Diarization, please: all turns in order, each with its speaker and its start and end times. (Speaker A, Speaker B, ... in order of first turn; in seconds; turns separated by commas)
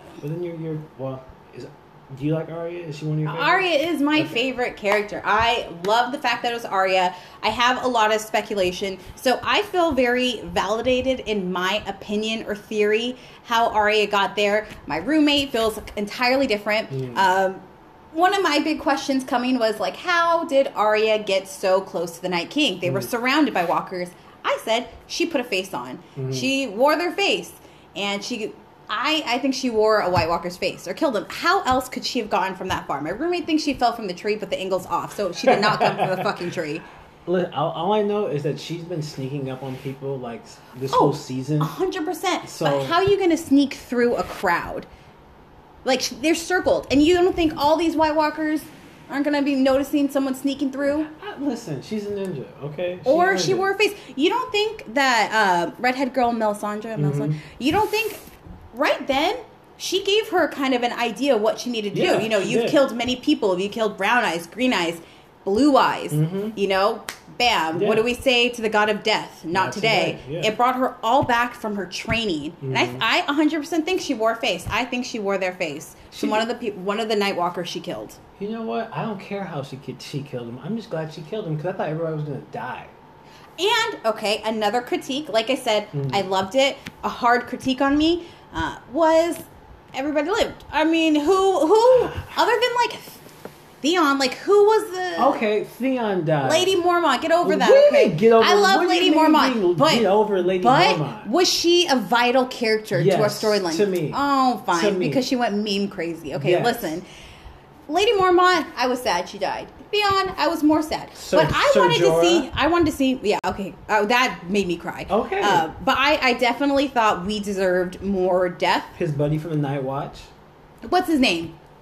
Speaker A: 0.2-4.5, Speaker B: 3.2-36.9, Speaker A: 16.9-17.3, Speaker A: 22.8-23.1, Speaker A: 26.1-26.5, Speaker A: 35.4-36.2, Speaker A: 37.2-41.7, Speaker B: 40.9-44.9, Speaker A: 42.4-43.0, Speaker B: 45.8-51.1, Speaker A: 51.1-53.7, Speaker B: 53.0-78.2, Speaker A: 57.0-57.4, Speaker A: 61.9-62.8, Speaker A: 66.1-66.6, Speaker A: 67.7-68.0, Speaker A: 69.5-70.5, Speaker A: 72.6-73.0, Speaker A: 76.1-76.5, Speaker A: 78.4-82.9, Speaker B: 83.6-93.2, Speaker A: 85.9-86.2, Speaker B: 93.8-95.4, Speaker A: 95.2-96.7, Speaker B: 96.4-107.0, Speaker A: 97.4-101.3, Speaker A: 102.9-105.2, Speaker A: 106.3-107.0, Speaker B: 107.9-118.9, Speaker A: 111.2-112.5, Speaker A: 115.1-115.7, Speaker A: 119.0-120.3, Speaker B: 120.8-121.5